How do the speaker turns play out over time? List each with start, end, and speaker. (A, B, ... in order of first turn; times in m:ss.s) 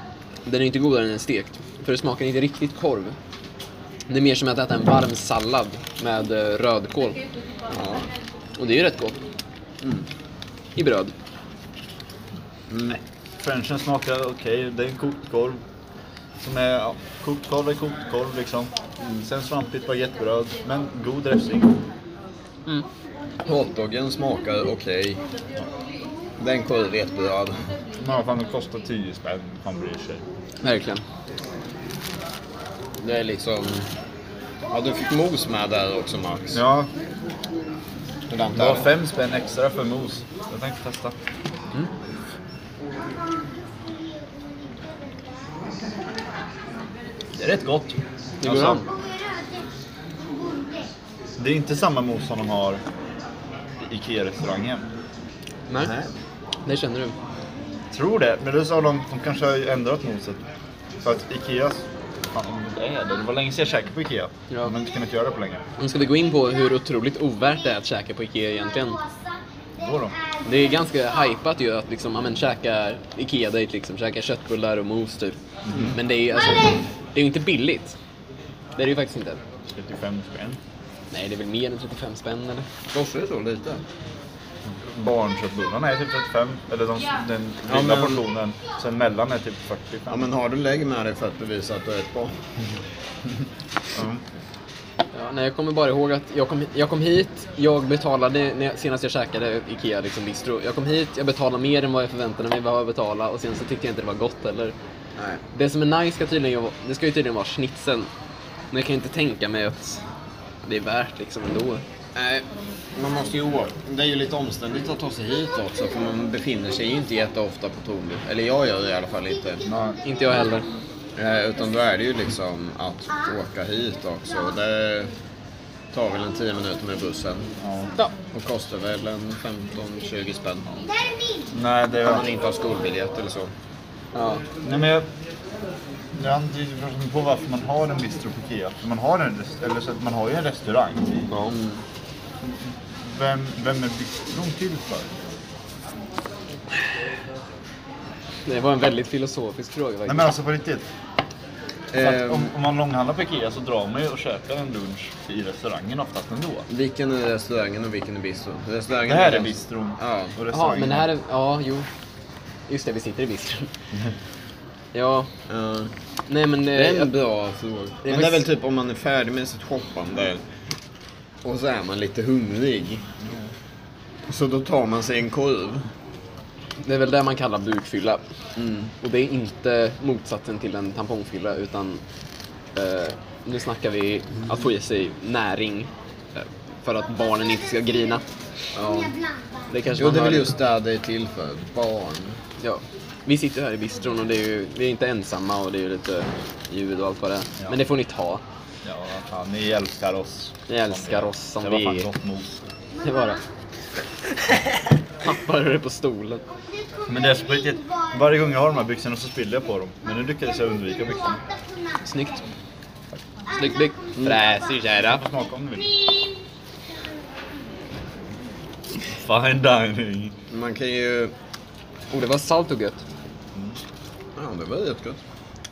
0:00.4-0:03.2 A
0:04.1-0:07.2 A
0:07.7-0:08.1 B
0:08.6-0:09.2 A
0:10.8-0:11.1 A
0:12.7-0:13.0 B
0:13.4-0:15.6 C
0:16.4-0:21.8 C
0:23.4-0:25.2 B
0:26.4-0:27.7 B
0:28.0-0:30.2 C
0:30.6-0:31.0 A
0:33.0-0:33.9 B
0:34.7-0:36.6 B
0:36.5-0:36.9 C
0:38.3-0:38.9 B
0:38.5-0:41.2 C
0:47.3-0:48.9 C
0:48.4-0:48.9 A
0:51.4-0:52.8 C
0:53.8-0:54.8 C
0:55.8-0:56.1 B
0:56.6-0:57.1 A
0:57.9-1:00.4 C
1:01.0-1:05.6 C
1:05.8-1:09.0 A
1:09.8-1:10.2 C
1:10.4-1:18.0 A
1:15.6-1:16.0 C
1:18.8-1:19.4 A
1:19.8-1:20.6 C
1:21.1-1:22.7 A
1:22.9-1:23.8 B
1:24.6-1:30.3 C
1:27.7-1:28.2 B
1:30.1-1:32.4 B
1:33.9-1:34.2 C
1:35.1-1:44.7 A
1:45.5-1:48.1 A
1:48.7-1:50.0 A
1:50.6-1:51.8 A
1:52.2-1:59.7 B
1:59.6-2:00.0 C
2:00.0-2:00.6 A
2:01.2-2:05.1 B
2:05.9-2:07.5 B
2:07.6-2:07.9 C
2:08.3-2:10.7 B
2:11.5-2:12.3 C
2:12.0-2:13.5 B
2:14.1-2:14.4 A
2:14.6-2:15.0 C
2:16.1-2:21.3 C
2:21.3-2:21.8 B
2:22.4-2:25.2 C
2:28.4-2:30.3 A
2:30.0-2:30.8 C
2:31.9-2:32.5 B
2:31.9-2:36.7 C
2:36.7-2:40.4 B
2:39.0-2:41.1 C
2:40.5-2:41.9 A
2:42.7-2:43.7 A
2:44.9-2:45.3 A
2:45.5-2:45.9 B
2:46.3-2:47.1 A
2:46.7-2:50.4 B
2:48.0-2:48.5 A
2:51.4-2:53.0 B
2:53.2-2:53.5 C
2:54.3-2:55.9 B
2:56.8-2:58.2 A
2:58.6-2:58.9 B
2:59.0-3:02.0 A
3:02.7-3:10.5 A
3:10.0-3:12.4 B
3:12.6-3:18.4 A
3:18.8-3:22.7 C
3:20.7-3:22.1 A
3:23.0-3:23.4 A
3:25.2-3:26.4 A
3:27.0-3:31.5 C
3:32.0-3:32.4 A
3:33.5-3:35.2 A
3:34.2-3:34.4 B
3:35.0-3:36.4 C
3:39.1-3:40.3 C
3:40.5-3:41.3 B
3:42.1-3:43.0 A
3:44.4-3:45.2 B